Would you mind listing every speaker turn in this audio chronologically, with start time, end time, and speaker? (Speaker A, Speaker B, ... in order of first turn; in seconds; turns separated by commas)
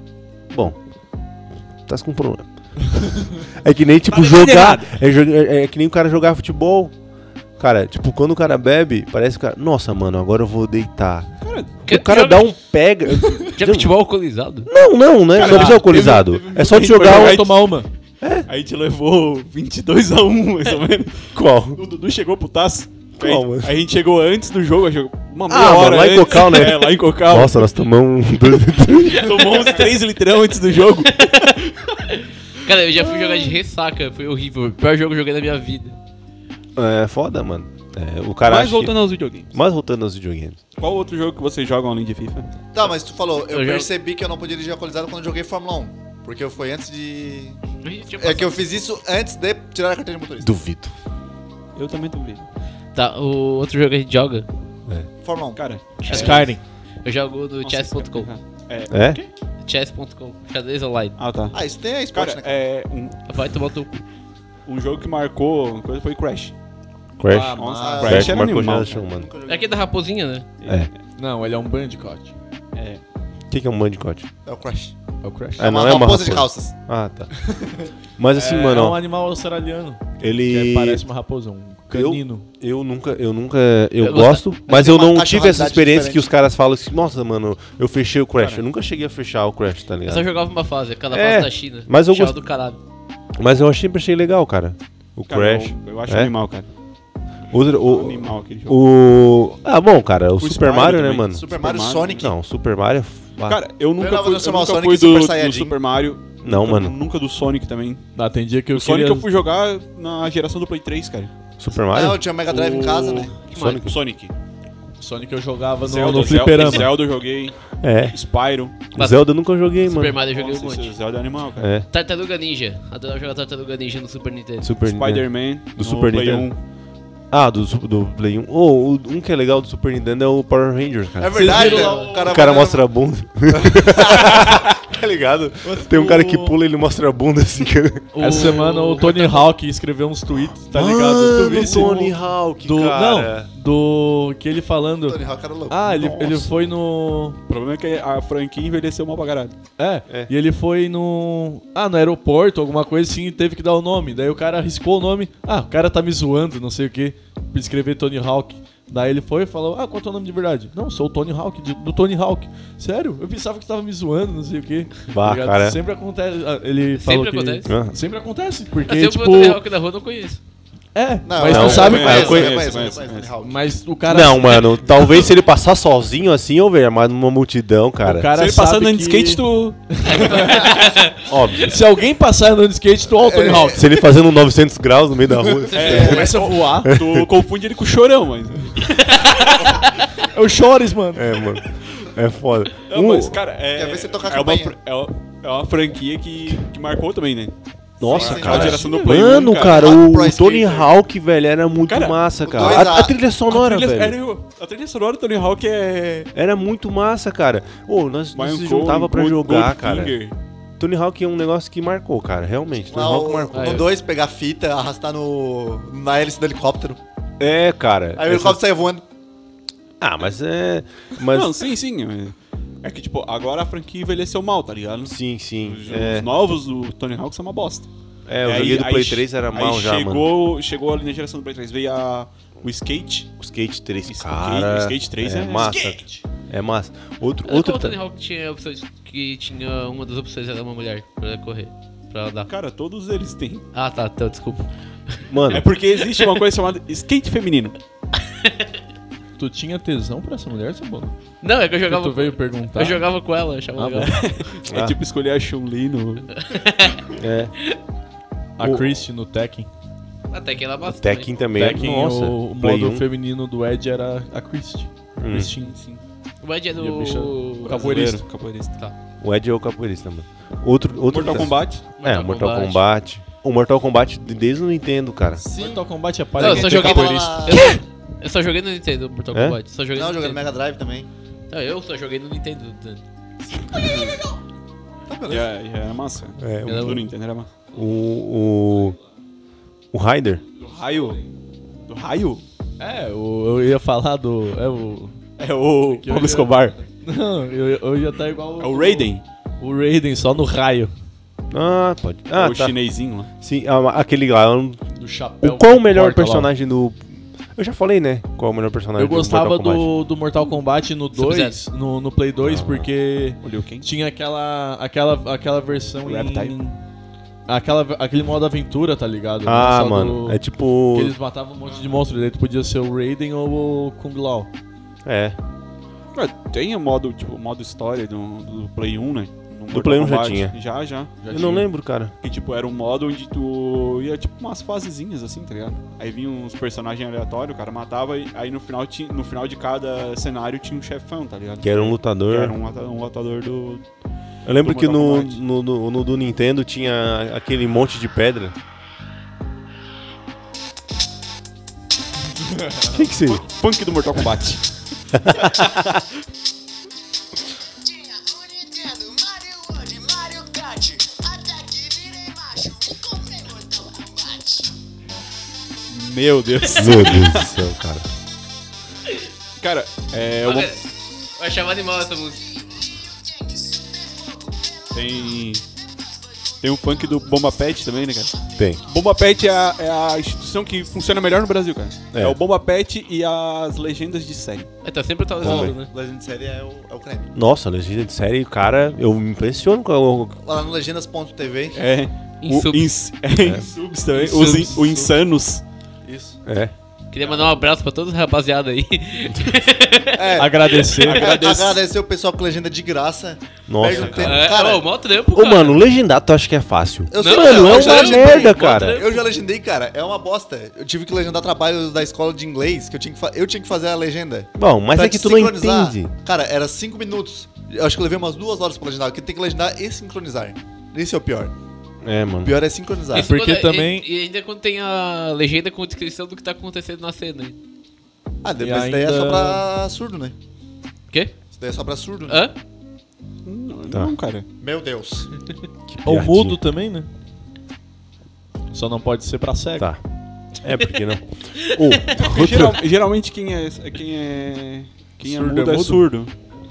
Speaker A: 0.5-0.8, Speaker A: 1.9-6.9, Speaker A: 7.6-11.3, Speaker B: 11.4-11.7, Speaker A: 11.8-13.9, Speaker C: 11.8-14.7, Speaker A: 14.7-17.5, Speaker B: 15.3-17.7, Speaker D: 15.3-17.9, Speaker A: 18.2-18.5, Speaker B: 18.5-27.6, Speaker A: 21.3-21.8, Speaker A: 23.2-23.7, Speaker A: 25.5-29.5, Speaker B: 29.1-31.9, Speaker C: 29.1-29.9, Speaker C: 31.0-36.0, Speaker B: 33.0-33.5, Speaker A: 36.8-40.6, Speaker B: 38.4-39.5, Speaker B: 40.8-42.9, Speaker E: 42.7-47.6, Speaker C: 43.5-43.9, Speaker C: 47.8-48.6, Speaker E: 48.2-50.5, Speaker A: 50.4-50.9, Speaker B: 51.7-52.5, Speaker C: 52.9-54.5, Speaker E: 55.2-55.6, Speaker B: 55.5-56.5, Speaker C: 56.0-58.3, Speaker D: 56.1-56.6, Speaker B: 57.6-59.3, Speaker A: 58.9-59.2, Speaker C: 59.6-61.4, Speaker B: 61.2-63.7, Speaker E: 61.5-62.5, Speaker C: 63.2-64.1, Speaker B: 64.6-66.5, Speaker A: 67.2-69.3, Speaker D: 67.3-68.2, Speaker B: 67.5-69.0, Speaker E: 67.8-69.9, Speaker C: 69.5-70.5, Speaker B: 70.6-71.0, Speaker D: 71.1-72.3, Speaker B: 72.7-73.0, Speaker A: 73.5-74.3, Speaker E: 74.4-76.7, Speaker D: 75.2-75.6, Speaker A: 75.6-77.6, Speaker A: 78.2-79.0, Speaker D: 78.3-82.5, Speaker A: 80.2-81.0, Speaker A: 81.9-90.3, Speaker C: 84.0-84.6, Speaker E: 84.7-86.3, Speaker B: 88.3-88.6, Speaker C: 90.0-92.8, Speaker A: 91.1-92.4, Speaker A: 93.4-96.3, Speaker B: 95.3-96.7, Speaker A: 97.5-101.4, Speaker B: 97.6-98.8, Speaker B: 100.4-102.3, Speaker E: 101.3-102.3, Speaker A: 102.2-103.6, Speaker B: 103.5-108.1, Speaker E: 104.0-105.7, Speaker A: 106.4-107.0, Speaker D: 108.1-109.3, Speaker B: 108.7-111.3, Speaker A: 111.6-112.2, Speaker E: 111.9-113.4, Speaker B: 112.5-114.3, Speaker C: 113.5-113.9, Speaker A: 113.5-113.9, Speaker D: 115.0-116.9, Speaker B: 115.8-118.8, Speaker A: 117.8-118.2, Speaker A: 118.8-120.2, Speaker C: 118.9-121.0, Speaker B: 120.2-121.7, Speaker A: 121.6-121.8, Speaker C: 121.8-124.7, Speaker A: 124.6-126.5, Speaker B: 124.8-126.6, Speaker A: 127.3-138.4, Speaker E: 131.2-133.0, Speaker C: 131.3-132.3, Speaker D: 131.6-132.1, Speaker B: 131.8-132.3, Speaker E: 133.5-134.5, Speaker D: 135.6-136.6, Speaker C: 138.1-139.5, Speaker D: 138.2-147.4, Speaker A: 140.7-143.5, Speaker B: 141.6-141.9, Speaker E: 145.1-145.8, Speaker A: 145.8-146.5, Speaker B: 147.5-149.6, Speaker D: 149.8-169.6, Speaker A: 165.1-165.8, Speaker C: 166.9-167.7, Speaker A: 167.6-167.9, Speaker C: 168.9-170.4, Speaker D: 170.9-172.5, Speaker E: 171.2-173.6, Speaker A: 171.4-172.8, Speaker B: 171.5-173.3, Speaker D: 173.4-175.0, Speaker A: 174.1-178.3, Speaker D: 178.0-180.9, Speaker B: 178.3-181.0, Speaker C: 180.1-181.2, Speaker A: 181.1-181.8, Speaker D: 181.6-183.9, Speaker E: 183.2-184.0, Speaker A: 183.5-187.3, Speaker D: 185.5-186.9, Speaker B: 185.7-189.9, Speaker E: 185.7-186.4, Speaker D: 190.2-191.3, Speaker A: 191.1-193.4, Speaker B: 192.9-200.0, Speaker E: 193.8-194.8, Speaker A: 198.0-204.2, Speaker E: 198.0-200.9, Speaker D: 198.5-199.1, Speaker B: 201.9-202.9, Speaker E: 202.4-203.1, Speaker B: 203.5-206.3, Speaker A: 206.3-210.2, Speaker B: 208.3-210.3, Speaker A: 210.8-213.9, Speaker E: 212.9-217.0, Speaker C: 213.5-213.9, Speaker A: 217.4-218.6, Speaker E: 218.2-219.0, Speaker A: 220.0-221.6, Speaker B: 221.3-227.9, Speaker A: 225.0-226.3, Speaker A: 228.3-230.3, Speaker B: 228.4-233.4, Speaker A: 233.4-238.0, Speaker B: 234.0-236.0, Speaker C: 237.4-242.5, Speaker B: 242.5-243.7, Speaker C: 243.7-245.3, Speaker A: 245.3-245.7, Speaker B: 245.5-247.8, Speaker C: 248.2-248.6, Speaker D: 249.4-253.0, Speaker C: 251.4-254.4, Speaker A: 253.8-254.2, Speaker B: 254.0-256.4, Speaker A: 254.7-254.9, Speaker C: 256.3-257.1, Speaker A: 257.2-257.5, Speaker D: 258.6-259.7, Speaker A: 258.6-259.0, Speaker C: 260.3-261.3, Speaker A: 260.9-263.0, Speaker D: 261.5-265.7, Speaker A: 265.1-265.5, Speaker B: 265.3-266.0, Speaker C: 266.4-267.8, Speaker D: 266.8-268.2, Speaker B: 267.7-268.8, Speaker A: 269.2-275.4, Speaker B: 271.1-271.9, Speaker C: 272.0-272.9, Speaker E: 275.4-277.8, Speaker D: 275.5-277.6, Speaker C: 276.4-280.5, Speaker E: 279.9-281.1, Speaker C: 281.5-283.0, Speaker C: 283.5-284.0, Speaker B: 283.8-284.2, Speaker E: 285.1-285.5, Speaker B: 285.3-287.5, Speaker A: 286.4-287.1, Speaker C: 286.6-287.0, Speaker A: 287.7-289.0, Speaker A: 289.9-290.4, Speaker B: 290.6-291.2, Speaker B: 291.9-292.4, Speaker D: 292.8-300.9, Speaker B: 295.4-296.8, Speaker B: 298.6-299.2, Speaker A: 301.5-302.8, Speaker B: 302.3-303.3, Speaker A: 303.4-304.8, Speaker D: 304.9-306.5, Speaker A: 305.4-309.9, Speaker D: 308.9-316.8, Speaker C: 311.1-311.6, Speaker A: 312.4-312.9, Speaker B: 313.4-313.9, Speaker B: 316.0-316.6, Speaker D: 317.4-324.5, Speaker A: 319.4-321.1, Speaker B: 321.7-321.9, Speaker A: 325.0-325.4, Speaker B: 326.1-331.1, Speaker A: 329.7-330.5, Speaker D: 331.2-331.7, Speaker A: 331.3-332.1, Speaker B: 332.2-343.9, Speaker A: 341.6-342.6, Speaker A: 344.4-348.5, Speaker B: 344.5-345.4, Speaker A: 352.9-353.4, Speaker B: 353.3-355.1, Speaker A: 355.1-356.0, Speaker B: 365.9-367.6, Speaker A: 366.7-368.1, Speaker B: 369.6-370.8, Speaker C: 370.4-372.6, Speaker B: 374.9-375.6, Speaker B: 376.6-384.7, Speaker A: 382.1-382.4, Speaker C: 384.8-385.8, Speaker E: 385.4-387.3, Speaker D: 385.4-385.9, Speaker A: 385.4-385.7, Speaker A: 387.3-390.4, Speaker E: 390.4-391.8, Speaker B: 391.7-395.6, Speaker C: 392.4-392.9, Speaker D: 394.1-395.1, Speaker C: 394.2-394.7, Speaker D: 396.0-396.4, Speaker A: 396.4-396.7, Speaker C: 397.1-400.4, Speaker B: 397.2-397.5, Speaker E: 400.2-404.9, Speaker D: 400.4-401.3, Speaker B: 401.0-401.8, Speaker A: 403.7-404.5, Speaker B: 403.9-404.2, Speaker C: 404.2-405.8, Speaker A: 405.3-409.0, Speaker E: 407.1-421.5, Speaker C: 407.1-409.3, Speaker A: 414.6-416.1, Speaker A: 422.0-422.5, Speaker E: 422.4-423.3, Speaker D: 423.1-424.1, Speaker C: 423.1-427.6, Speaker E: 428.4-430.3, Speaker D: 428.6-429.6, Speaker C: 431.1-431.4, Speaker E: 431.5-432.4, Speaker C: 432.3-432.5, Speaker B: 433.4-434.4, Speaker E: 434.6-435.3, Speaker A: 435.9-436.6, Speaker D: 436.0-437.1, Speaker D: 438.7-439.9, Speaker A: 439.8-442.8, Speaker C: 441.8-442.1, Speaker B: 442.2-446.3, Speaker D: 445.2-446.1